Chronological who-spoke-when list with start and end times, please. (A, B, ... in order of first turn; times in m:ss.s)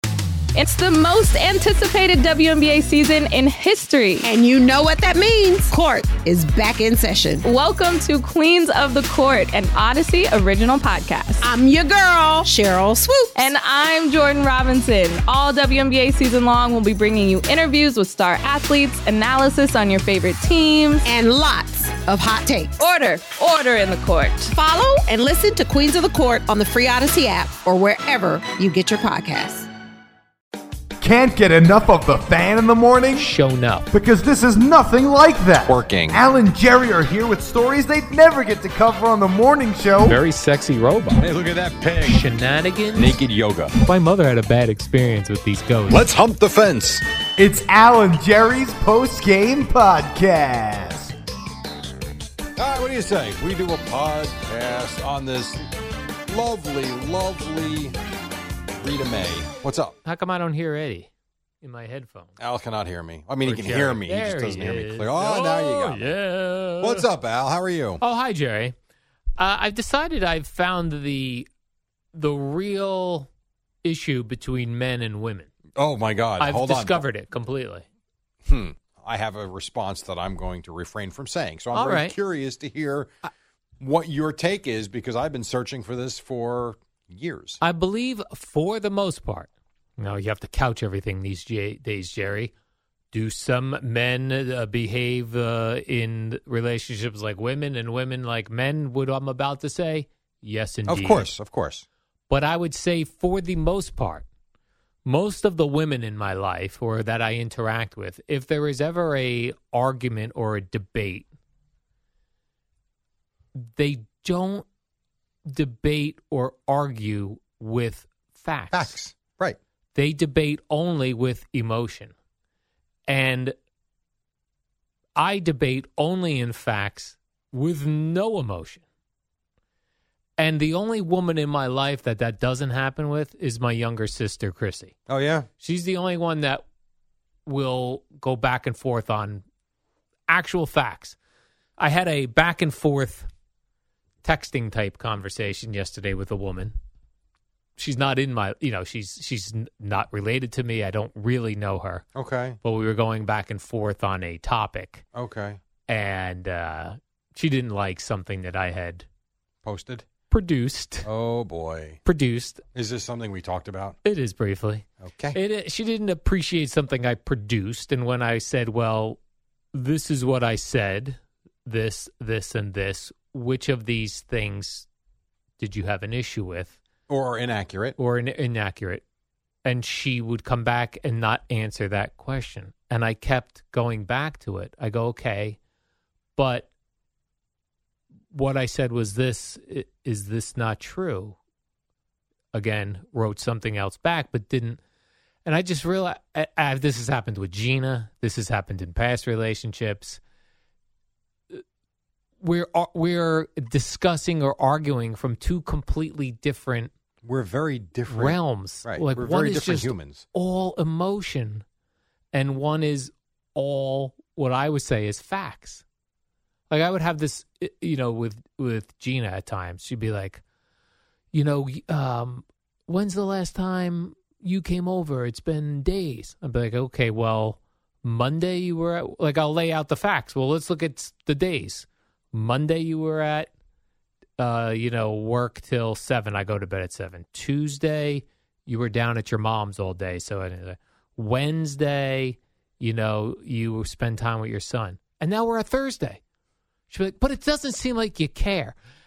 0:00.6-0:04.3 A
0:04.2-0:07.5 B
0:07.4-0:11.5 A
0:11.4-0:13.5 B
0:13.4-0:21.1 A
0:21.0-0:22.8 B
0:22.8-0:24.5 A
0:24.5-0:29.7 B
0:31.0-0:33.3 C
0:33.2-0:33.9 D
0:33.9-0:40.2 C
0:35.6-0:36.2 E
0:40.0-0:41.3 D
0:41.2-0:42.2 E
0:42.0-0:43.2 D
0:43.0-0:43.7 E
0:43.8-0:46.0 D
0:45.9-0:47.0 E
0:47.4-0:51.1 C
0:52.6-0:55.6 E
0:56.3-0:58.0 E
0:58.8-1:00.0 E
1:00.0-1:01.1 D
1:01.6-1:02.4 D
1:02.4-1:06.1 E
1:03.4-1:07.1 D
1:06.8-1:08.0 E
1:08.0-1:08.8 D
1:09.4-1:11.5 D
1:12.1-1:13.3 D
1:13.8-1:15.5 D
1:15.8-1:17.0 E
1:16.4-1:17.8 D
1:18.4-1:23.1 E
1:21.7-1:22.2 D
1:23.8-1:27.6 E
1:27.6-1:32.5 D
1:33.1-1:41.3 D
1:40.9-1:41.9 E
1:42.3-1:44.2 D
1:45.0-1:51.3 D
1:53.6-1:54.6 D
1:55.5-1:59.0 D
1:58.7-1:59.6 E
2:00.0-2:02.1 D
2:03.1-2:03.6 D
2:05.2-2:08.8 D
2:10.4-2:15.0 D
2:15.1-2:15.5 E
2:15.6-2:16.6 D
2:17.5-2:19.4 D
2:20.3-2:21.2 D
2:21.8-2:23.3 D
2:24.2-2:26.8 D
2:27.8-2:32.0 D
2:32.1-2:32.6 E
2:32.6-2:35.0 D
2:35.1-2:35.6 E
2:35.9-2:39.1 D
2:39.6-2:40.1 E
2:40.3-2:41.1 D
2:41.0-2:42.0 E
2:42.0-2:42.6 D
2:42.7-2:44.0 E
2:44.0-2:49.2 D
2:45.0-2:45.4 E
2:49.7-2:54.9 D
2:55.6-2:56.8 D
2:57.1-2:58.0 E
2:58.0-2:59.0 D
2:59.6-3:05.6 D
3:06.4-3:06.7 D
3:08.3-3:11.4 D
3:12.5-3:14.8 D
3:15.4-3:20.2 D
3:22.4-3:26.9 D
3:27.2-3:30.3 E
3:28.1-3:31.6 D
3:32.3-3:35.8 D
3:36.7-3:40.4 D
3:41.3-3:53.5 D
3:54.4-4:06.2 D
4:06.9-4:08.8 D